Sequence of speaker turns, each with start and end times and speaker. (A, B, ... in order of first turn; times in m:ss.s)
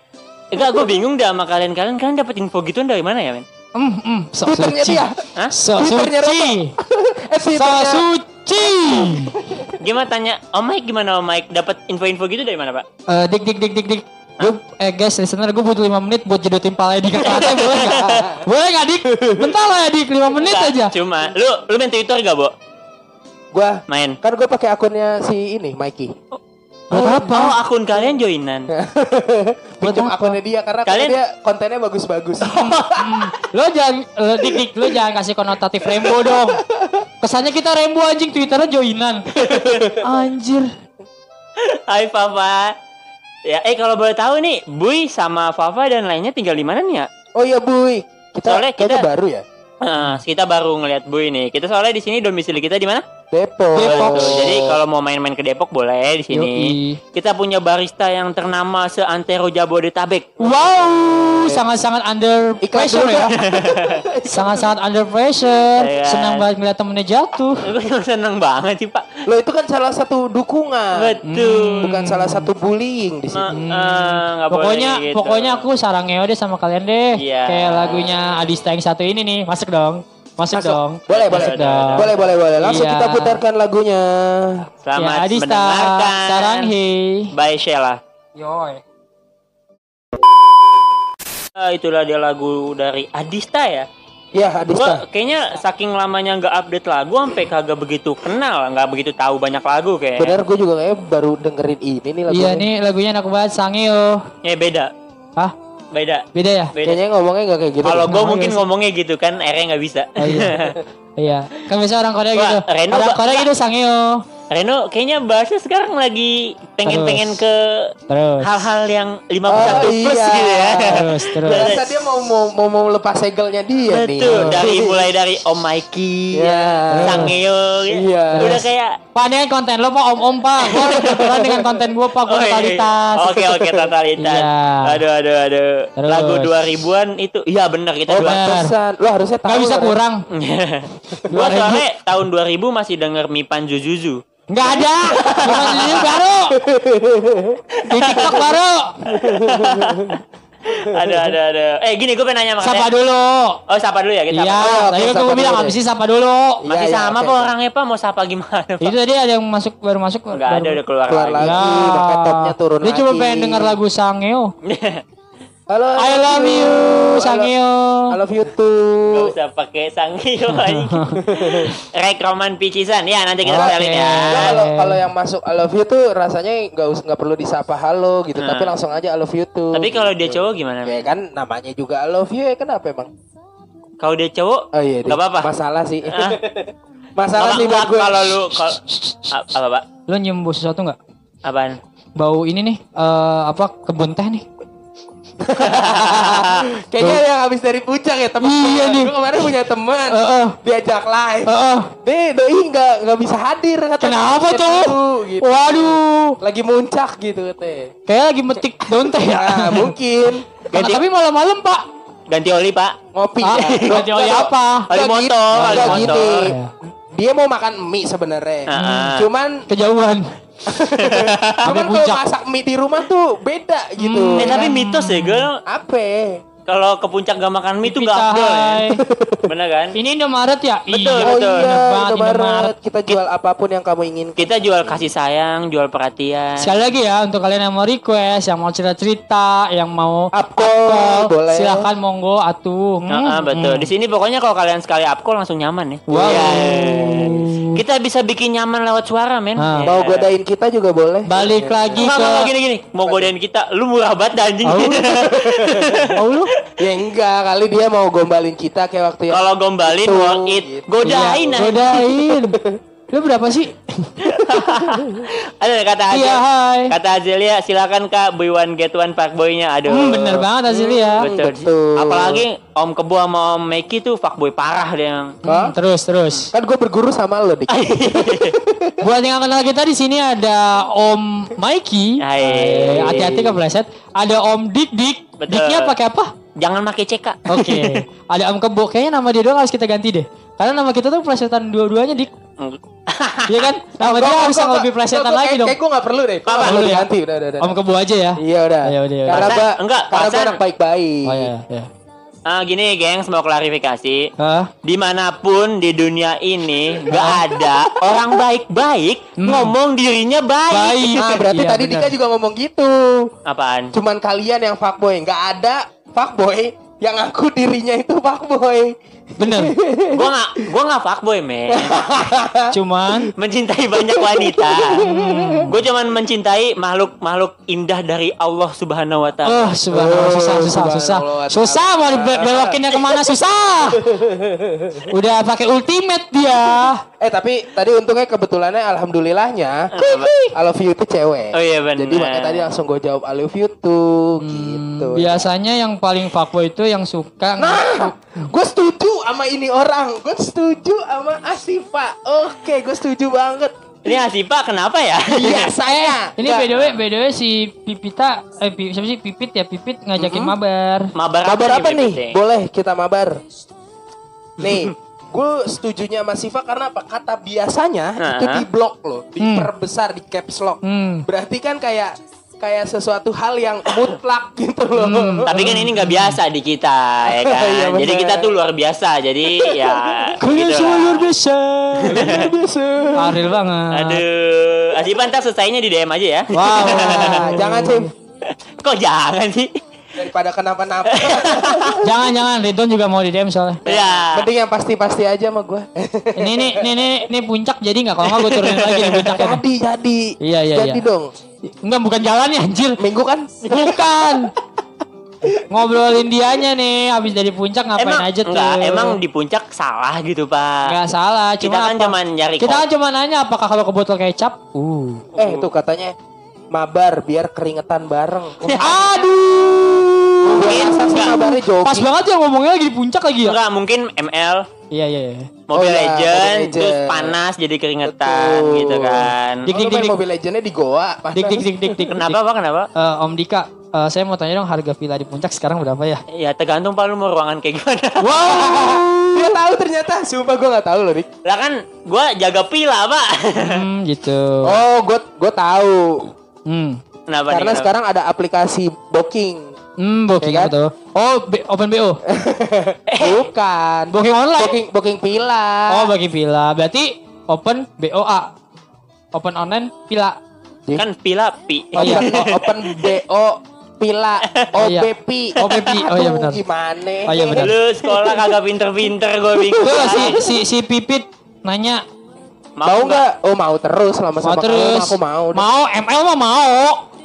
0:00.5-0:03.4 A
0:03.8-0:06.8 B
0:04.4-0:08.1 C
0:07.5-0:09.4 B
0:09.4-0:09.7 C
0:09.8-0:12.8 A
0:13.1-0:20.9 B
0:17.2-0:18.1 A
0:17.7-0:18.4 C
0:19.1-0:19.5 C
0:20.3-0:22.5 A
0:23.5-0:26.2 C
0:23.9-0:24.2 A
0:26.9-0:27.6 B
0:26.9-0:28.7 A
0:28.7-0:33.2 C
0:29.8-0:30.4 B
0:30.9-0:31.2 A
0:32.4-0:36.6 B
0:32.5-0:32.8 A
0:35.8-0:37.0 C
0:37.2-0:39.3 B
0:39.4-0:39.9 A
0:39.5-0:39.9 C
0:39.9-0:40.7 B
0:41.6-0:42.8 A
0:43.5-0:47.1 A
0:47.4-0:49.4 C
0:48.4-0:49.1 A
0:49.8-0:53.0 A
0:53.3-0:54.8 C
0:53.8-0:54.5 B
0:53.8-1:00.3 A
0:56.3-0:57.0 B
1:00.4-1:03.3 B
1:02.6-1:04.8 C
1:03.4-1:04.0 A
1:04.3-1:07.6 B
1:05.8-1:06.5 A
1:07.6-1:09.1 A
1:09.3-1:11.2 C
1:11.0-1:11.9 A
1:11.3-1:12.5 B
1:11.8-1:13.6 C
1:13.3-1:15.6 A
1:13.5-1:23.4 B
1:17.2-1:18.2 A
1:20.5-1:24.7 C
1:21.1-1:22.2 A
1:24.8-1:26.7 A
1:25.0-1:27.3 B
1:27.3-1:28.0 A
1:28.4-1:28.8 B
1:31.6-1:33.9 A
1:34.3-1:35.0 C
1:34.7-1:40.4 A
1:40.2-1:42.7 C
1:42.3-1:44.2 B
1:44.4-1:44.9 A
1:45.9-1:47.0 A
1:46.3-1:46.7 B
1:46.8-1:48.1 C
1:47.8-1:50.8 A
1:48.1-1:48.6 B
1:50.2-1:50.6 B
1:51.2-1:54.2 B
1:52.4-1:53.5 A
1:54.5-2:01.8 A
1:56.9-1:57.4 B
1:58.1-1:58.5 B
1:59.5-2:05.1 C
2:00.9-2:01.7 B
2:03.9-2:09.0 A
2:04.3-2:04.6 B
2:06.3-2:07.4 C
2:06.9-2:07.3 B
2:07.9-2:08.7 C
2:09.2-2:13.5 B
2:10.7-2:11.2 A
2:10.7-2:11.7 C
2:12.3-2:18.4 A
2:13.6-2:13.9 C
2:14.2-2:15.0 B
2:16.0-2:16.6 B
2:18.1-2:20.0 C
2:18.2-2:18.7 B
2:19.4-2:20.2 B
2:20.3-2:24.2 A
2:21.3-2:21.8 B
2:21.3-2:21.8 C
2:24.5-2:26.6 B
2:24.6-2:28.5 C
2:25.1-2:26.1 A
2:27.8-2:28.4 A
2:27.9-2:29.1 B
2:29.1-2:30.2 C
2:29.1-2:32.9 A
2:30.9-2:31.4 C
2:32.6-2:33.6 B
2:33.7-2:34.8 A
2:34.3-2:36.6 B
2:34.6-2:35.8 C
2:36.6-2:37.5 C
2:36.7-2:39.0 A
2:38.8-2:40.8 B
2:40.3-2:41.6 A
2:41.1-2:43.8 C
2:41.4-2:44.5 B
2:44.6-2:45.0 A
2:45.7-2:47.5 C
2:46.0-2:48.2 B
2:48.1-2:49.4 C
2:49.1-2:54.6 A
2:50.6-2:51.8 B
2:51.2-2:51.7 C
2:53.5-2:55.1 B
2:54.3-3:03.1 C
2:58.4-2:58.7 A
2:59.7-3:01.0 A
3:04.0-3:05.5 A
3:04.7-3:08.4 C
3:06.1-3:06.4 A
3:07.4-3:09.9 A
3:08.8-3:09.3 B
3:10.1-3:11.0 B
3:11.4-3:11.8 A
3:12.2-3:14.4 B
3:15.4-3:27.9 C
3:15.6-3:16.7 A
3:18.4-3:19.2 B
3:20.1-3:20.6 B
3:21.5-3:21.9 B
3:24.0-3:26.4 B
3:28.1-3:29.9 B
3:29.0-3:30.5 C
3:30.7-3:31.0 A
3:30.7-3:31.8 B
3:32.3-3:33.0 A
3:33.1-3:36.6 C
3:33.4-3:34.9 B
3:33.6-3:34.0 A
3:34.9-3:36.5 A
3:35.5-3:36.7 B
3:37.1-3:39.7 C
3:38.7-3:39.3 A
3:38.8-3:39.1 B
3:39.7-3:40.3 B
3:40.6-3:44.7 C
3:40.9-3:41.6 A
3:41.6-3:42.2 B
3:44.0-3:45.5 B
3:44.4-3:45.6 A
3:45.7-3:46.4 C
3:46.7-3:48.9 A
3:47.8-3:49.0 B
3:49.0-3:49.5 C
3:49.4-3:50.0 A
3:50.0-3:52.7 B
3:50.9-3:51.7 A
3:51.2-3:55.1 C
3:54.4-3:56.7 A
3:56.6-4:03.9 B
4:00.3-4:01.9 C
4:03.1-4:10.3 A
4:06.1-4:07.8 B
4:09.6-4:09.9 B
4:09.8-4:12.1 C
4:11.3-4:12.5 B
4:12.0-4:16.2 A
4:13.0-4:13.3 C
4:14.6-4:15.1 B
4:15.0-4:16.1 C
4:16.1-4:16.5 B
4:16.8-4:22.8 C
4:19.3-4:22.1 A
4:21.0-4:22.6 B
4:23.1-4:24.5 B
4:24.2-4:30.5 A
4:24.6-4:25.2 C
4:26.1-4:26.9 B
4:29.9-4:31.3 B
4:30.7-4:32.4 C
4:31.2-4:35.4 A
4:35.4-4:36.5 B
4:35.5-4:35.8 C
4:36.5-4:39.0 C
4:37.7-4:38.6 A
4:39.0-4:46.3 B
4:42.2-4:43.5 A
4:42.7-4:43.5 C
4:45.4-4:46.0 A
4:46.6-4:48.0 A
4:47.5-4:52.3 B
4:52.6-4:53.7 A
4:53.5-4:55.8 B
4:54.0-4:57.8 C
4:56.5-4:56.8 A
4:56.6-4:57.1 B
4:57.6-4:59.6 B
4:58.4-5:01.5 C
4:59.3-5:00.6 A
5:01.3-5:01.9 B
5:02.5-5:04.3 A
5:04.4-5:04.7 B
5:04.8-5:11.4 A
5:09.4-5:09.8 B
5:10.7-5:12.1 B
5:11.2-5:13.3 C
5:13.5-5:13.9 A
5:13.9-5:20.3 C
5:19.4-5:19.8 B
5:20.1-5:22.0 A
5:21.7-5:22.7 C
5:22.7-5:23.3 B
5:23.4-5:29.8 A
5:24.0-5:25.8 C
5:25.0-5:25.8 B
5:29.4-5:34.1 B
5:29.9-5:32.9 C
5:33.9-5:35.1 C
5:35.1-5:37.0 B
5:37.2-5:39.9 C
5:39.9-5:40.3 A
5:40.0-5:40.6 B
5:40.5-5:45.5 C
5:41.5-5:42.7 A
5:44.4-5:48.1 B
5:47.6-5:54.2 C
5:54.0-5:55.7 A
5:55.3-5:56.7 C
5:55.9-6:01.1 B
5:56.7-5:57.0 A
6:00.2-6:00.5 C
6:01.2-6:02.4 A
6:01.4-6:03.4 C
6:04.6-6:15.8 C
6:08.2-6:08.7 A
6:09.4-6:09.7 B
6:10.8-6:11.3 B
6:15.0-6:16.4 B
6:15.5-6:21.3 A
6:17.3-6:18.6 C
6:19.5-6:20.3 C
6:20.4-6:22.5 B
6:22.0-6:22.5 A
6:22.1-6:23.6 C
6:23.2-6:24.2 B
6:23.9-6:27.5 A
6:26.5-6:28.1 B
6:26.8-6:28.1 C
6:28.5-6:29.8 A
6:30.2-6:32.3 C
6:31.1-6:32.0 A
6:32.0-6:33.8 B
6:33.9-6:34.5 A
6:33.9-6:36.9 C
6:36.4-6:39.6 B
6:38.2-6:39.3 A
6:39.3-6:41.3 C
6:40.4-6:41.0 B
6:41.8-6:43.0 B
6:43.0-6:44.4 C
6:43.7-6:44.5 B
6:45.7-6:49.2 B
6:48.0-6:50.9 A
6:50.9-6:55.2 B
6:51.6-6:52.8 A
6:55.3-6:55.7 A
6:55.4-6:56.2 C
6:56.7-6:59.2 C
6:58.8-7:03.6 B
7:00.5-7:02.1 C
7:00.6-7:01.5 A
7:03.4-7:04.7 A
7:04.9-7:05.5 B
7:05.7-7:09.7 A
7:05.7-7:07.4 C
7:08.0-7:12.0 C
7:09.7-7:10.2 B
7:11.3-7:12.4 B
7:12.1-7:12.9 A
7:13.0-7:16.2 B
7:16.3-7:18.6 A
7:18.2-7:19.6 B
7:18.4-7:21.3 C
7:21.4-7:23.8 A
7:23.6-7:24.8 B
7:24.6-7:26.3 C
7:26.7-7:27.0 B
7:27.3-7:27.9 A
7:27.5-7:29.7 C
7:30.0-7:32.2 B
7:30.4-7:30.7 C
7:32.3-7:36.1 C
7:33.1-7:33.5 A
7:34.1-7:34.8 B
7:35.9-7:38.5 B
7:39.3-7:40.4 B
7:41.0-7:43.2 A
7:42.0-7:48.6 C
7:42.0-7:42.3 B
7:44.8-7:46.6 B
7:45.6-7:45.9 A
7:47.3-7:47.8 B
7:47.6-7:50.4 A
7:49.6-7:50.4 C
7:49.8-7:52.0 B
7:52.8-7:53.2 A
7:52.8-7:55.7 C
7:54.4-7:57.0 B